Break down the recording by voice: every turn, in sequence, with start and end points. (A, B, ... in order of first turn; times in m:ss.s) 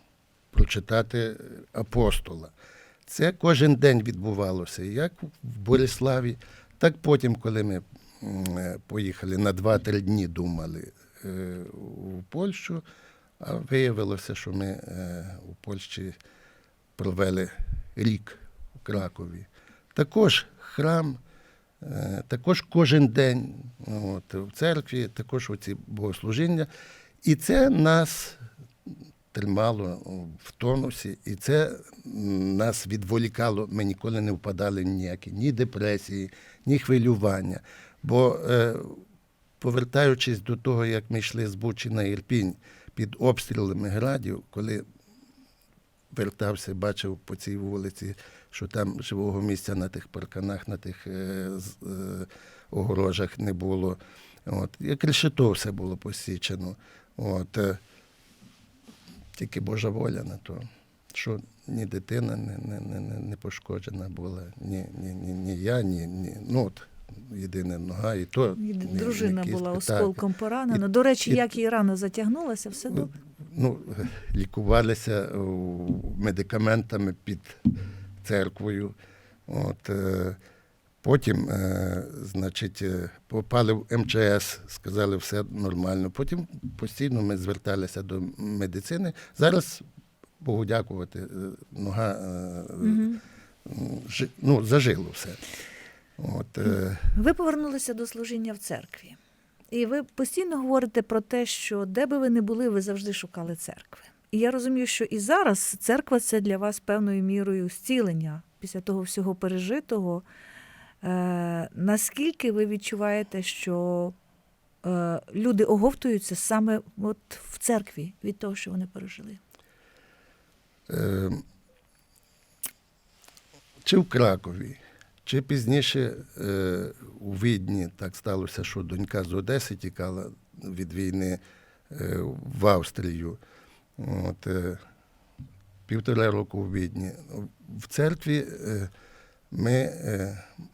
0:00.5-0:02.5 A
0:03.0-0:12.8 A
0:13.4-0:16.2 A
0:17.0-0:21.2 A
0:21.8-0:26.7 A
0:27.2-0:39.0 A
0:39.6-0:44.8 A
0:46.1-0:57.8 A
0:59.3-1:10.2 A
1:08.6-1:13.1 B
1:10.7-1:11.4 A
1:12.9-1:17.7 A
1:18.2-1:18.9 A
1:19.5-1:20.4 A
1:21.0-1:29.8 A
1:30.4-1:33.0 A
1:32.8-1:33.2 B
1:33.6-1:35.4 A
1:36.2-1:37.2 A
1:37.1-1:39.2 B
1:39.7-1:50.2 B
1:51.0-1:54.2 B
1:54.8-1:59.4 B
2:00.9-2:01.4 A
2:03.8-2:11.4 A
2:11.9-2:13.4 A
2:14.0-2:14.8 A
2:15.9-2:18.9 A
2:19.5-2:20.5 A